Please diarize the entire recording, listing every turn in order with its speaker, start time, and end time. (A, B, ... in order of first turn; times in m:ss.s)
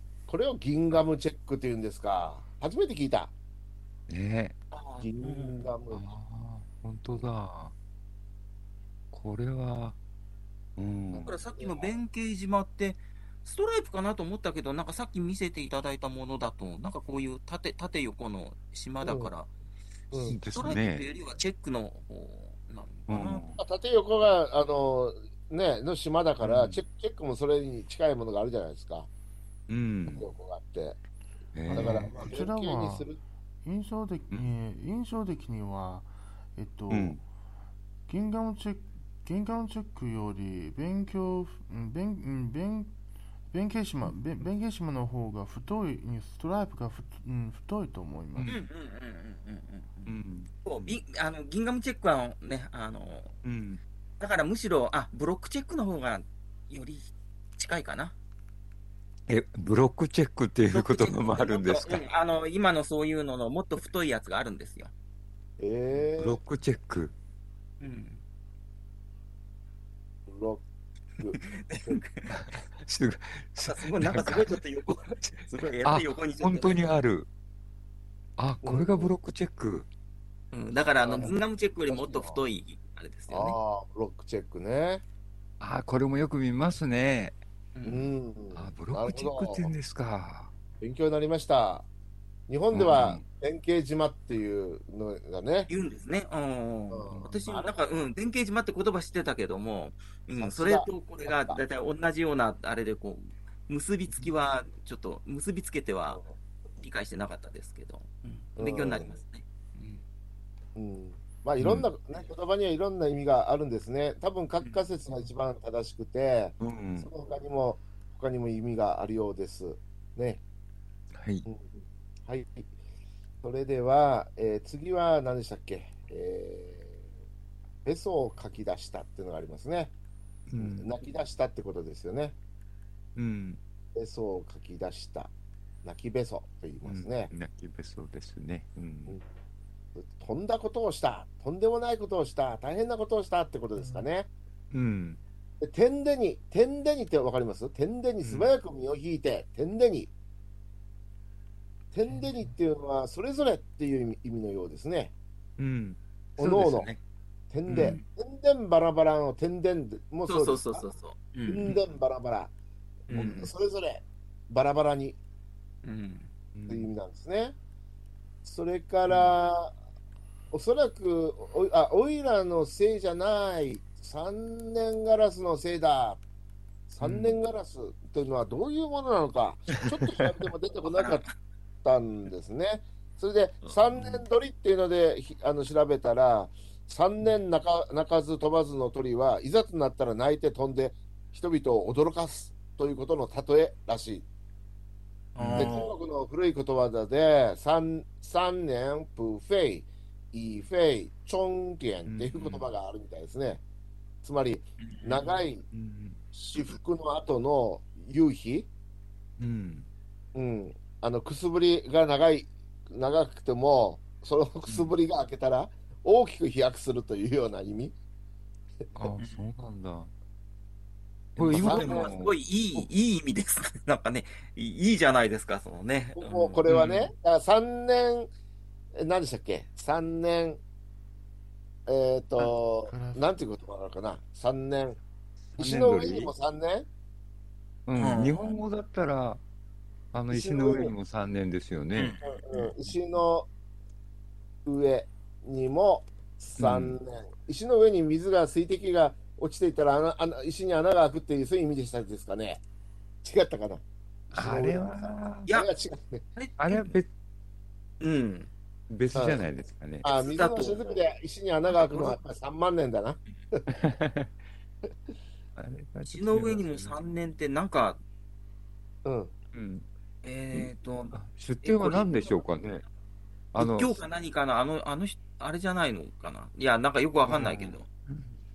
0:00.3-0:03.3 A
0:04.1-0:04.6 B
0:04.7-0:05.6 C
0:05.0-0:06.2 A
0:05.9-0:07.7 B
0:09.1-0:10.0 B
0:10.8-0:11.4 B
0:11.1-0:11.9 A
0:11.2-0:19.5 C
0:19.0-0:19.3 A
0:20.1-0:20.4 A
0:20.2-0:23.4 C
0:20.2-0:21.0 B
0:23.1-0:23.6 B
0:23.6-0:29.1 A
0:26.4-0:26.8 B
0:29.7-0:30.3 B
0:30.0-0:31.0 A
0:31.6-0:32.1 B
0:31.7-0:33.2 A
0:31.7-0:33.1 D
0:33.6-0:37.2 D
0:36.9-0:37.2 B
0:38.1-0:42.9 D
0:43.5-0:48.5 D
0:48.3-0:48.6 B
0:48.5-0:53.4 C
0:50.1-0:50.5 B
0:53.4-0:53.8 B
0:54.2-0:58.1 C
0:59.3-1:02.0 B
1:00.7-1:04.9 C
1:05.6-1:06.4 A
1:06.2-1:07.1 B
1:07.8-1:08.2 C
1:10.3-1:10.6 A
1:11.3-1:12.5 C
1:12.3-1:14.6 B
1:13.6-1:16.9 C
1:15.8-1:17.3 B
1:18.4-1:19.9 B
1:18.6-1:19.1 A
1:20.5-1:23.6 C
1:21.0-1:21.4 A
1:21.9-1:22.4 A
1:23.3-1:25.0 A
1:25.6-1:27.4 B
1:27.7-1:28.1 C
1:27.8-1:29.7 A
1:28.5-1:30.5 B
1:30.8-1:31.9 A
1:32.5-1:35.7 A
1:32.7-1:33.2 B
1:35.7-1:46.2 C
1:36.9-1:37.7 A
1:40.4-1:41.6 A
1:46.8-1:50.0 C
1:48.6-1:49.1 A
1:50.8-2:00.4 A
1:51.6-1:51.9 B
1:56.6-1:57.1 B
2:01.2-2:01.4 B
2:01.4-2:02.7 A
2:03.4-2:07.0 A
2:07.8-2:09.9 A
2:10.5-2:10.9 B
2:10.6-2:12.4 A
2:13.2-2:13.6 B
2:13.9-2:15.3 A
2:15.8-2:17.3 A
2:16.8-2:19.2 B
2:19.9-2:24.3 A
2:24.7-2:25.2 B
2:25.6-2:30.1 A
2:28.2-2:28.5 B
2:31.9-2:35.1 A
2:35.6-2:37.0 B
2:36.4-2:36.9 A
2:37.5-2:40.8 A
2:37.7-2:38.0 C
2:40.3-2:41.8 C
2:41.4-2:42.5 A
2:43.1-2:43.5 C
2:43.1-2:45.2 A
2:45.8-2:46.3 C
2:46.5-2:46.9 B
2:46.7-2:47.6 A
2:48.4-2:49.7 A
2:49.1-2:49.3 C
2:50.5-2:56.2 A
2:56.9-3:01.2 A
3:00.9-3:01.3 C
3:01.8-3:14.2 A
3:03.6-3:04.2 C
3:15.4-3:15.9 C
3:15.4-3:15.7 B
3:15.4-3:23.6 A
3:22.0-3:22.6 B
3:24.2-3:25.6 A
3:24.8-3:25.4 C
3:25.7-3:26.2 B
3:26.3-3:28.7 A
3:29.4-3:29.9 B
3:30.3-3:37.9 A
3:38.9-3:40.1 B
3:41.4-3:42.3 B
3:41.4-3:42.1 A
3:41.4-3:47.1 C
3:46.2-3:48.3 A
3:48.9-3:50.6 A
3:51.8-3:55.0 A
3:52.9-3:53.3 D
3:55.5-3:56.3 B
3:55.6-3:56.9 A
3:57.9-3:59.4 B
3:57.9-3:58.4 C
4:00.1-4:02.2 B
4:00.3-4:00.9 A
4:01.9-4:02.7 C
4:02.2-4:03.5 A
4:04.6-4:12.6 A
4:06.6-4:07.0 B
4:13.2-4:16.2 A
4:14.3-4:15.5 B
4:16.4-4:17.0 C
4:16.6-4:17.1 B
4:18.0-4:18.5 C
4:18.9-4:20.0 B
4:19.1-4:19.4 A
4:20.0-4:23.6 A
4:20.1-4:21.0 C
4:21.7-4:22.2 C
4:23.7-4:24.3 B
4:25.6-4:27.0 B
4:26.1-4:28.0 C
4:29.0-4:29.3 A
4:29.5-4:29.8 B
4:30.2-4:32.4 C
4:30.5-4:32.8 B
4:33.5-4:34.0 B
4:33.6-4:37.9 C
4:37.3-4:38.3 B